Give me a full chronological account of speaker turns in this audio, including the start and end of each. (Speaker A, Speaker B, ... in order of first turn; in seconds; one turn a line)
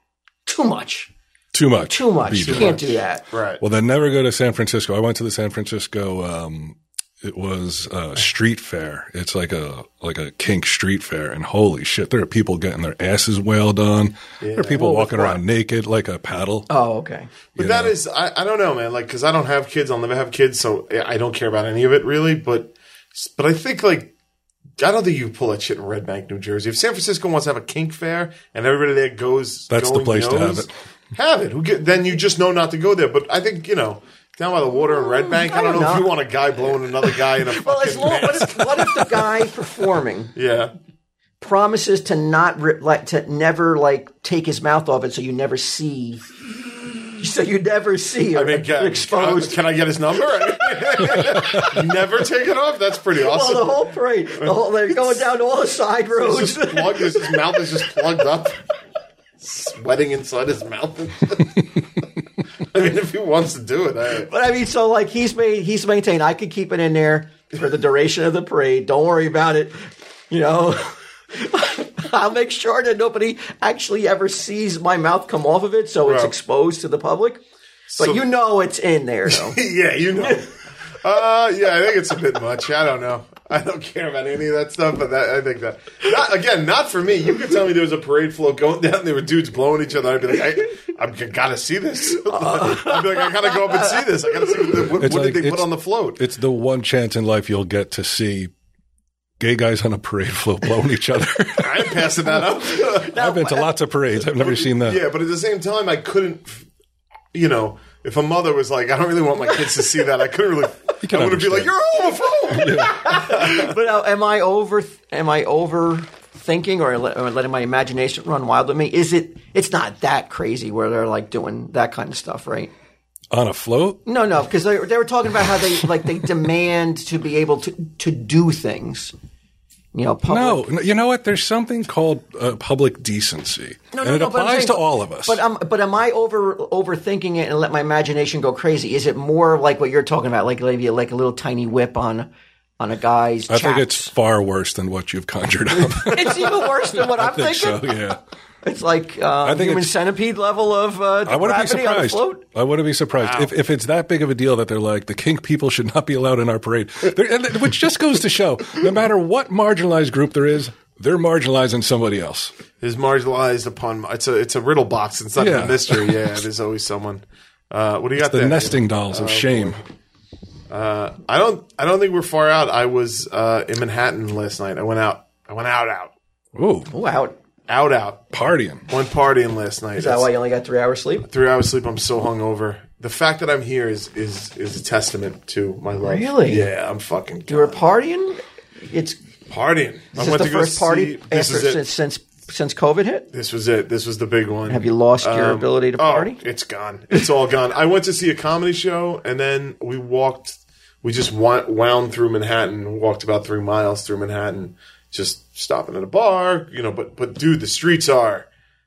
Speaker A: 0.4-1.1
Speaker B: 1.5-2.8
Speaker A: 1.9-3.2
Speaker C: 2.4-3.6
Speaker B: 3.6-16.7
Speaker C: 14.4-14.9
Speaker A: 14.8-15.4
Speaker A: 16.7-17.3
Speaker B: 17.6-17.9
Speaker C: 17.6-24.1
Speaker C: 24.8-39.2
Speaker B: 29.7-30.7
Speaker A: 35.2-36.1
Speaker A: 37.4-40.3
Speaker C: 40.3-40.7
Speaker A: 41.4-46.3
Speaker A: 47.1-49.6
Speaker C: 48.3-53.8
Speaker A: 51.0-51.8
Speaker A: 53.2-57.9
Speaker C: 54.4-55.2
Speaker C: 56.1-58.6
Speaker C: 59.4-62.0
Speaker C: 62.7-64.3
Speaker A: 64.2-77.4
Speaker C: 76.0-76.3
Speaker C: 77.9-78.2
Speaker A: 78.0-79.6
Speaker C: 79.3-80.5
Speaker C: 81.0-96.2
Speaker A: 92.3-94.6
Speaker B: 95.0-98.5
Speaker B: 99.4-102.1
Speaker C: 101.6-103.1
Speaker A: 102.3-103.7
Speaker B: 103.1-105.0
Speaker C: 104.3-106.7
Speaker C: 107.3-113.5
Speaker B: 111.0-111.7
Speaker A: 111.7-122.7
Speaker B: 112.5-113.1
Speaker B: 123.3-124.0
Speaker A: 124.0-129.1
Speaker A: 129.9-130.7
Speaker B: 130.3-135.4
Speaker A: 133.9-144.1
Speaker B: 143.5-148.2
Speaker A: 145.9-148.0
Speaker A: 148.6-152.4
Speaker B: 149.4-149.9
Speaker B: 151.2-162.5
Speaker C: 153.2-153.5
Speaker C: 162.8-169.8
Speaker B: 165.4-166.2
Speaker B: 168.2-169.8
Speaker C: 170.7-176.1
Speaker B: 176.5-176.9
Speaker A: 176.9-177.4
Speaker C: 177.7-178.2
Speaker B: 178.3-178.8
Speaker C: 178.9-180.3
Speaker A: 179.9-181.3
Speaker C: 181.3-187.8
Speaker A: 186.0-186.6
Speaker A: 187.5-189.2
Speaker C: 189.5-191.8
Speaker A: 190.1-193.3
Speaker C: 193.3-208.5
Speaker A: 194.7-196.4